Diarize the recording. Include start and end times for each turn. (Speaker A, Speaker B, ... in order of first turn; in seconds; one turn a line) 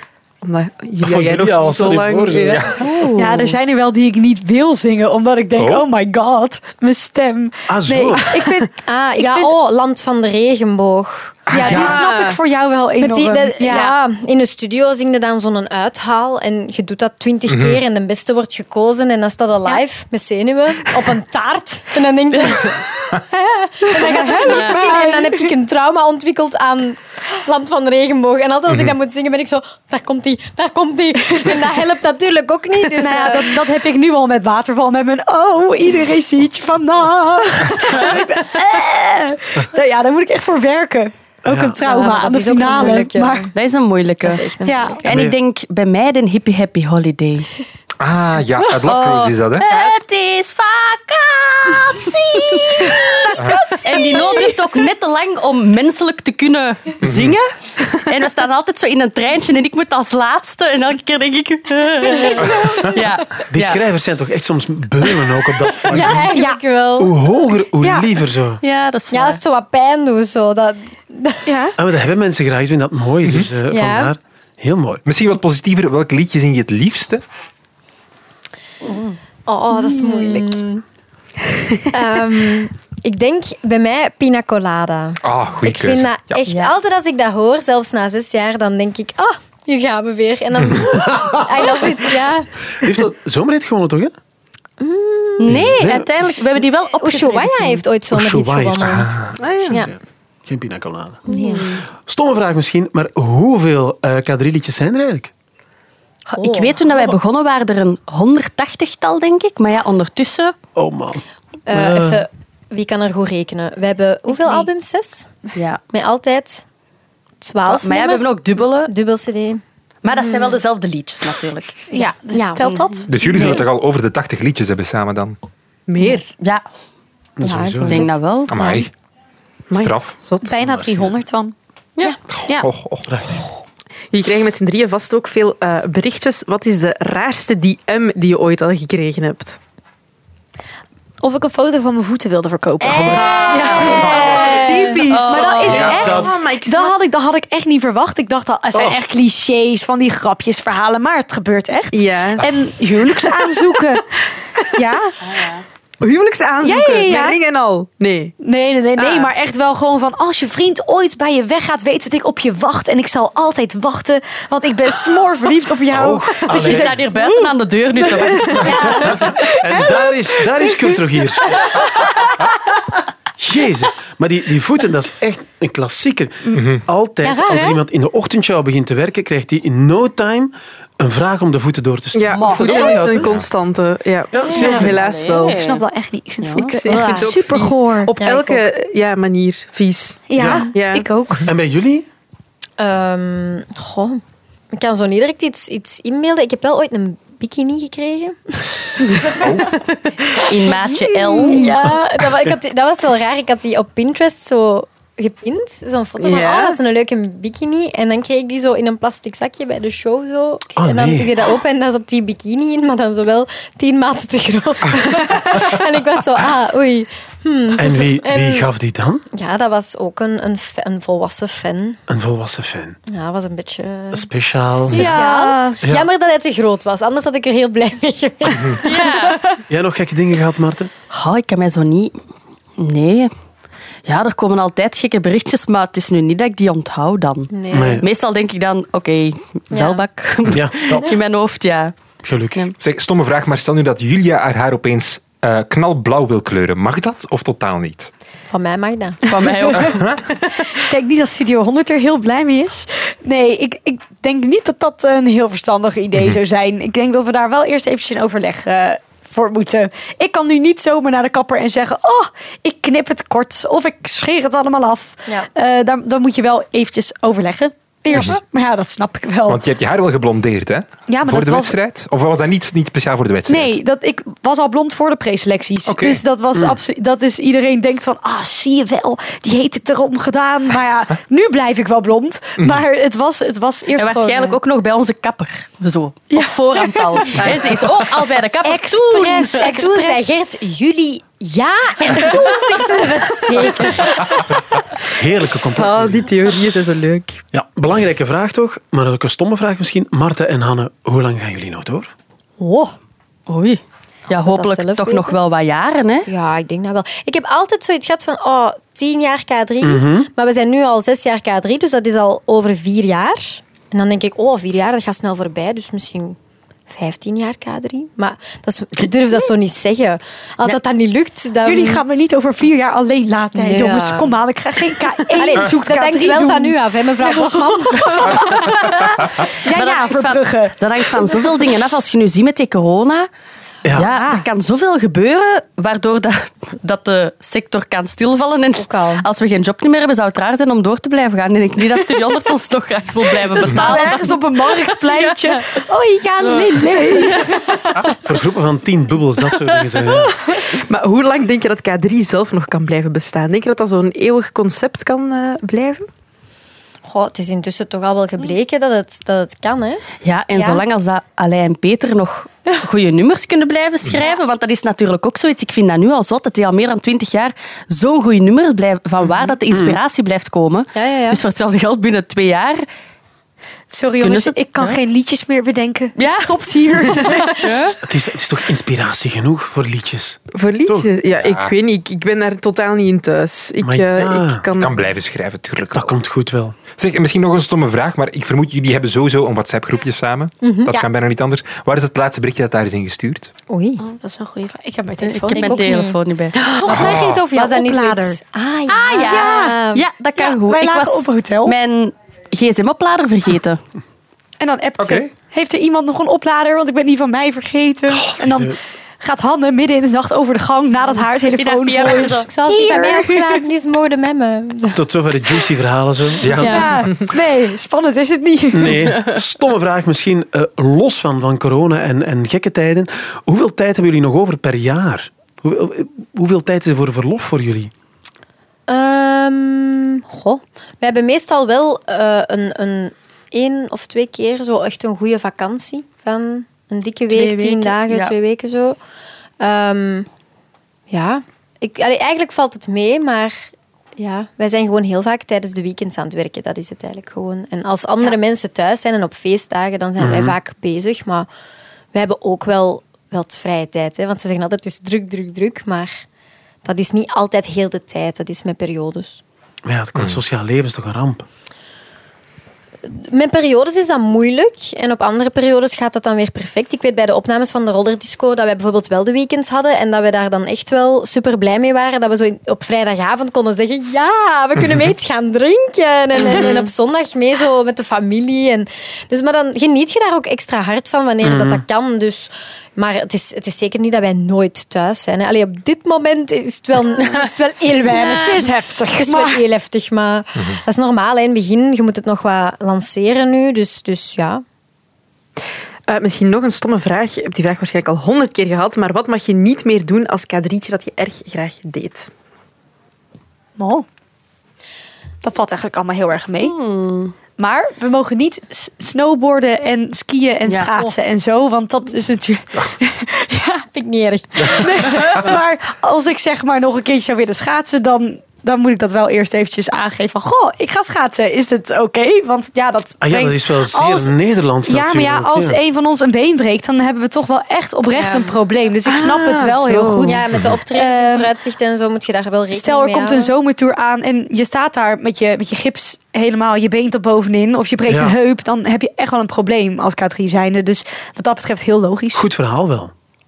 Speaker A: 0.4-3.5
Speaker B: 1.0-2.7
Speaker C: 2.6-2.8
Speaker D: 3.1-9.5
Speaker C: 5.6-5.8
Speaker B: 7.7-8.2
Speaker E: 8.8-11.5
Speaker C: 11.5-12.0
Speaker D: 11.5-13.9
Speaker A: 11.6-12.4
Speaker E: 13.0-33.5
Speaker C: 17.5-17.8
Speaker D: 23.9-25.4
Speaker F: 24.5-24.9
Speaker C: 28.7-28.9
Speaker D: 32.9-43.5
Speaker B: 41.4-41.8
Speaker E: 41.8-43.5
Speaker F: 43.5-44.4
Speaker E: 44.2-45.0
Speaker D: 44.6-45.0
Speaker F: 45.0-47.5
Speaker B: 45.1-45.4
Speaker C: 48.0-49.8
Speaker F: 48.6-63.8
Speaker C: 53.4-53.6
Speaker D: 53.5-54.5
Speaker C: 57.0-57.4
Speaker C: 62.4-63.0
Speaker B: 63.5-66.4
Speaker E: 65.9-67.1
Speaker D: 66.1-66.6
Speaker B: 67.0-68.6
Speaker D: 67.8-68.1
Speaker F: 68.6-69.4
Speaker E: 69.1-71.5
Speaker D: 71.5-71.8
Speaker B: 71.8-75.0
Speaker E: 73.7-74.1
Speaker C: 75.0-77.2
Speaker E: 79.5-80.8
Speaker D: 79.8-80.4
Speaker E: 81.9-92.5
Speaker C: 85.2-86.4
Speaker F: 86.5-86.7
Speaker C: 90.6-90.8
Speaker B: 91.0-91.8
Speaker B: 92.8-94.1
Speaker E: 94.8-95.7
Speaker F: 95.4-97.8
Speaker B: 95.5-96.1
Speaker E: 96.9-99.1
Speaker B: 98.1-101.2
Speaker C: 98.8-99.4
Speaker A: 99.4-99.8
Speaker F: 101.3-101.8
Speaker E: 101.3-101.8
Speaker B: 102.0-105.3
Speaker F: 106.3-110.5
Speaker E: 106.4-107.1
Speaker B: 110.7-112.2
Speaker E: 111.7-115.3
Speaker D: 114.3-114.6
Speaker F: 115.5-115.8
Speaker E: 115.9-116.6
Speaker E: 117.4-120.6
Speaker F: 117.7-118.9
Speaker F: 120.0-121.9
Speaker D: 121.9-123.1
Speaker E: 122.3-122.7
Speaker F: 122.6-123.6
Speaker C: 123.1-125.3
Speaker E: 123.2-123.6
Speaker A: 125.9-126.3
Speaker F: 126.0-126.6
Speaker B: 127.4-128.1
Speaker E: 127.4-128.8
Speaker F: 127.8-128.5
Speaker C: 128.5-128.9
Speaker A: 129.7-130.5
Speaker C: 129.7-130.2
Speaker D: 130.4-131.5
Speaker B: 130.6-131.1
Speaker C: 132.3-133.1
Speaker B: 133.1-133.4
Speaker A: 134.1-139.6
Speaker D: 141.2-154.0
Speaker E: 142.8-145.0
Speaker A: 143.1-146.9
Speaker F: 145.1-145.7
Speaker C: 145.6-146.3
Speaker B: 145.9-146.3
Speaker A: 151.9-152.5
Speaker A: 153.0-153.8
Speaker D: 154.7-155.1
Speaker F: 155.3-155.6
Speaker A: 156.0-158.3
Speaker D: 156.6-157.4
Speaker D: 158.4-167.0
Speaker A: 159.0-159.3
Speaker B: 165.9-167.0
Speaker F: 166.5-169.1
Speaker A: 166.5-168.7
Speaker D: 168.5-169.9
Speaker B: 168.6-171.6
Speaker E: 168.6-169.2
Speaker B: 173.4-183.4
Speaker C: 176.5-176.8
Speaker E: 177.2-177.8
Speaker A: 182.1-185.7
Speaker F: 182.3-183.2
Speaker B: 184.3-185.0
Speaker F: 184.4-185.8
Speaker E: 184.5-184.8
Speaker D: 185.5-188.1
Speaker F: 186.4-187.0
Speaker A: 186.6-191.1
Speaker E: 186.9-187.2
Speaker E: 188.2-188.6
Speaker D: 190.3-191.4
Speaker B: 191.4-192.1
Speaker E: 192.8-194.2
Speaker E: 194.7-199.6
Speaker A: 199.1-200.5
Speaker C: 199.3-199.7
Speaker F: 200.4-201.7
Speaker D: 200.8-201.7
Speaker E: 201.4-218.7
Speaker A: 206.2-206.8
Speaker B: 210.8-211.3
Speaker B: 217.7-219.2
Speaker E: 219.3-222.0
Speaker B: 222.1-223.0
Speaker E: 223.1-224.3
Speaker B: 224.1-225.2
Speaker E: 224.8-229.3
Speaker D: 224.9-225.8
Speaker B: 225.8-226.1
Speaker F: 228.8-229.4
Speaker B: 229.7-230.9
Speaker F: 231.1-232.2
Speaker F: 232.8-233.3
Speaker F: 234.1-241.9
Speaker E: 237.5-238.0
Speaker B: 237.7-238.1
Speaker E: 239.7-240.0
Speaker B: 240.4-241.2
Speaker B: 242.2-242.7
Speaker C: 242.8-248.1
Speaker E: 248.5-249.2
Speaker F: 249.2-250.1
Speaker C: 249.8-250.2
Speaker D: 250.7-269.6
Speaker C: 268.1-268.4
Speaker C: 269.5-273.8
Speaker D: 271.1-271.8
Speaker D: 273.5-284.6
Speaker C: 275.9-276.2
Speaker C: 282.6-282.8
Speaker F: 283.9-289.9
Speaker D: 286.3-288.0
Speaker A: 287.3-287.8
Speaker D: 288.6-290.3
Speaker E: 289.2-294.6
Speaker B: 295.1-296.3
Speaker A: 295.7-297.4
Speaker B: 297.5-302.1
Speaker D: 302.6-302.9
Speaker F: 303.5-306.3
Speaker E: 304.3-305.4
Speaker E: 306.3-316.4
Speaker B: 309.8-310.3
Speaker E: 316.9-322.0
Speaker D: 321.6-331.7
Speaker E: 323.6-324.4
Speaker E: 325.4-328.9
Speaker F: 329.7-333.3
Speaker B: 333.8-334.1
Speaker F: 333.9-345.3
Speaker D: 334.1-334.4
Speaker E: 338.8-339.2
Speaker D: 343.4-348.1
Speaker C: 343.6-344.0
Speaker F: 347.0-347.5
Speaker B: 348.2-350.3
Speaker A: 350.6-356.1
Speaker E: 357.1-360.8
Speaker F: 360.2-372.8
Speaker B: 369.7-370.0
Speaker E: 370.9-371.4
Speaker D: 373.9-377.5
Speaker F: 374.2-375.0
Speaker F: 376.2-378.0
Speaker B: 378.0-381.1
Speaker A: 380.5-385.1
Speaker C: 381.4-381.7
Speaker B: 383.8-384.6
Speaker C: 384.8-386.1
Speaker B: 385.9-386.8
Speaker C: 386.9-393.5
Speaker E: 390.6-391.1
Speaker E: 393.7-394.0
Speaker D: 394.0-396.1
Speaker F: 395.2-396.7
Speaker E: 395.6-396.2
Speaker D: 396.6-398.4
Speaker E: 396.8-400.0
Speaker C: 396.9-397.4
Speaker F: 398.9-403.8
Speaker D: 399.1-399.8
Speaker D: 400.4-401.7
Speaker D: 404.6-413.6
Speaker C: 405.0-405.3
Speaker B: 408.2-408.8
Speaker F: 411.5-412.5
Speaker E: 412.0-415.0
Speaker B: 414.9-416.6
Speaker C: 416.4-416.9
Speaker E: 416.5-416.9
Speaker D: 416.6-419.1
Speaker B: 418.7-427.9
Speaker E: 428.9-439.0
Speaker F: 437.3-438.4
Speaker E: 439.6-440.3
Speaker E: 441.1-451.5
Speaker B: 450.2-450.6
Speaker E: 452.1-456.2
Speaker E: 456.8-459.4
Speaker B: 459.8-461.4
Speaker E: 463.0-488.7
Speaker C: 474.8-475.1
Speaker F: 476.3-476.9
Speaker B: 481.4-481.8
Speaker F: 487.2-487.5
Speaker D: 488.1-489.6
Speaker F: 488.1-488.5
Speaker E: 489.2-494.6
Speaker A: 496.1-502.3
Speaker D: 503.8-504.1
Speaker D: 505.4-506.7
Speaker F: 506.6-507.3
Speaker D: 507.6-513.8
Speaker E: 513.9-515.2
Speaker D: 514.7-531.5
Speaker B: 523.2-525.8
Speaker E: 528.1-528.5
Speaker A: 529.0-530.4
Speaker E: 530.2-533.5
Speaker C: 530.5-530.8
Speaker D: 532.7-542.5
Speaker B: 538.1-538.4
Speaker B: 542.3-543.1